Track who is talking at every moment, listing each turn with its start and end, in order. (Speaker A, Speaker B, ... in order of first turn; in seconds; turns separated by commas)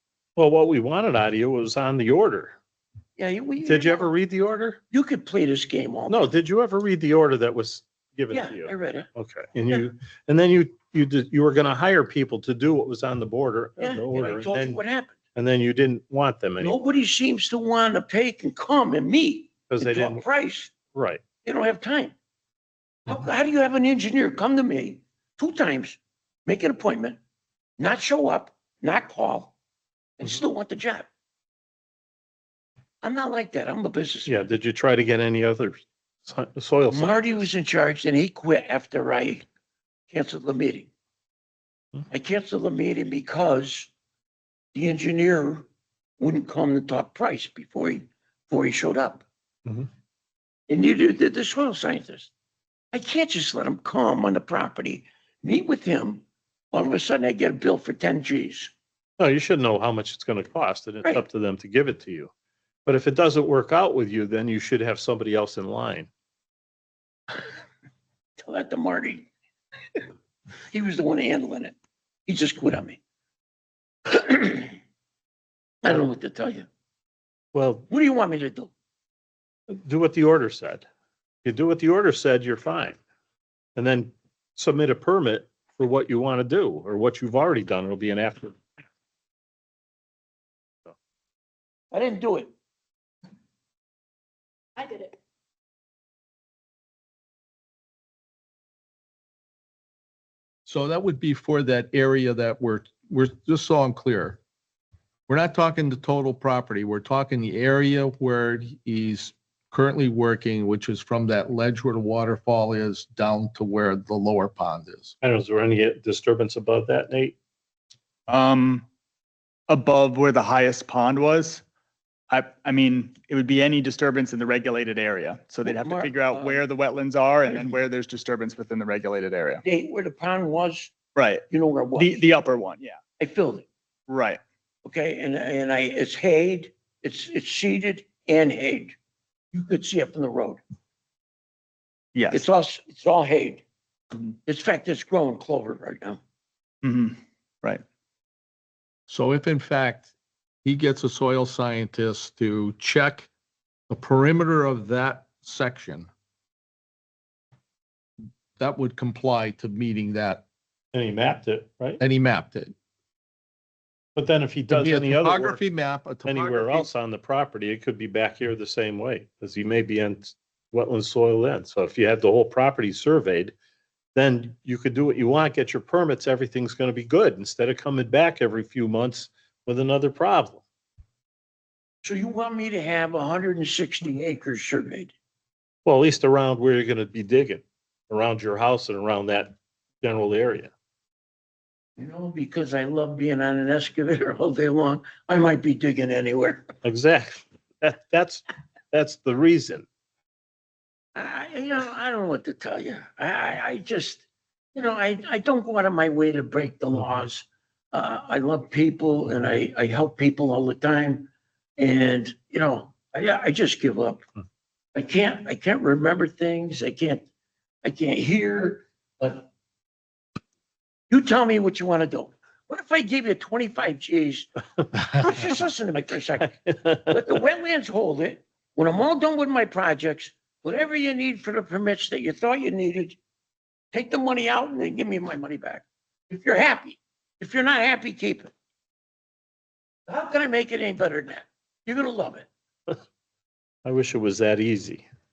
Speaker A: 0.3-2.5, Speaker B: 3.2-4.1, Speaker A: 3.6-4.8, Speaker B: 4.9-6.3, Speaker A: 6.1-14.8, Speaker B: 8.3-9.1, Speaker B: 13.8-15.1, Speaker A: 15.3-16.8, Speaker B: 16.6-20.7, Speaker A: 19.7-20.2, Speaker A: 20.9-21.2, Speaker B: 21.4-22.1, Speaker B: 23.1-27.2, Speaker B: 27.8-29.5, Speaker B: 30.2-31.1, Speaker B: 33.0-34.3, Speaker A: 34.2-37.3, Speaker B: 36.9-39.5, Speaker B: 40.1-40.9, Speaker B: 42.1-43.9, Speaker B: 44.7-45.6, Speaker B: 46.2-49.2, Speaker B: 50.7-52.3, Speaker B: 52.9-58.7, Speaker A: 59.2-62.3, Speaker A: 62.9-66.1, Speaker B: 68.4-69.3, Speaker B: 70.7-71.8, Speaker B: 72.3-73.0, Speaker B: 74.1-74.7, Speaker B: 75.8-76.7, Speaker A: 77.5-77.9, Speaker B: 77.9-78.7, Speaker A: 79.7-80.8, Speaker A: 81.4-83.0, Speaker A: 83.8-88.6, Speaker B: 91.9-92.5, Speaker C: 100.7-104.4, Speaker C: 105.3-115.1, Speaker A: 115.2-117.3, Speaker D: 118.3-118.8, Speaker D: 119.7-121.6, Speaker D: 122.3-129.6, Speaker B: 125.6-126.6, Speaker B: 127.5-127.8, Speaker B: 129.6-130.9, Speaker D: 131.2-133.0, Speaker B: 131.5-132.2, Speaker B: 133.2-133.7, Speaker D: 134.1-134.4, Speaker B: 134.8-138.9, Speaker B: 139.5-140.6, Speaker D: 142.1-142.4, Speaker B: 142.3-143.6, Speaker B: 144.4-146.2, Speaker D: 146.8-147.8, Speaker C: 149.1-150.1, Speaker C: 150.6-153.3, Speaker C: 153.9-156.1, Speaker C: 158.6-160.4, Speaker A: 160.9-162.0, Speaker C: 162.0-162.7, Speaker A: 164.2-165.6, Speaker C: 164.7-166.9, Speaker A: 166.2-173.5, Speaker A: 174.1-180.6, Speaker B: 182.0-185.1, Speaker A: 185.8-190.7, Speaker B: 192.0-196.7, Speaker A: 196.8-199.8, Speaker B: 201.1-204.2, Speaker B: 204.7-214.2, Speaker B: 214.9-217.3, Speaker B: 217.8-219.4, Speaker B: 221.1-224.5, Speaker B: 225.1-233.2, Speaker A: 226.7-227.2, Speaker B: 233.9-238.5, Speaker B: 240.1-242.5, Speaker A: 243.8-245.1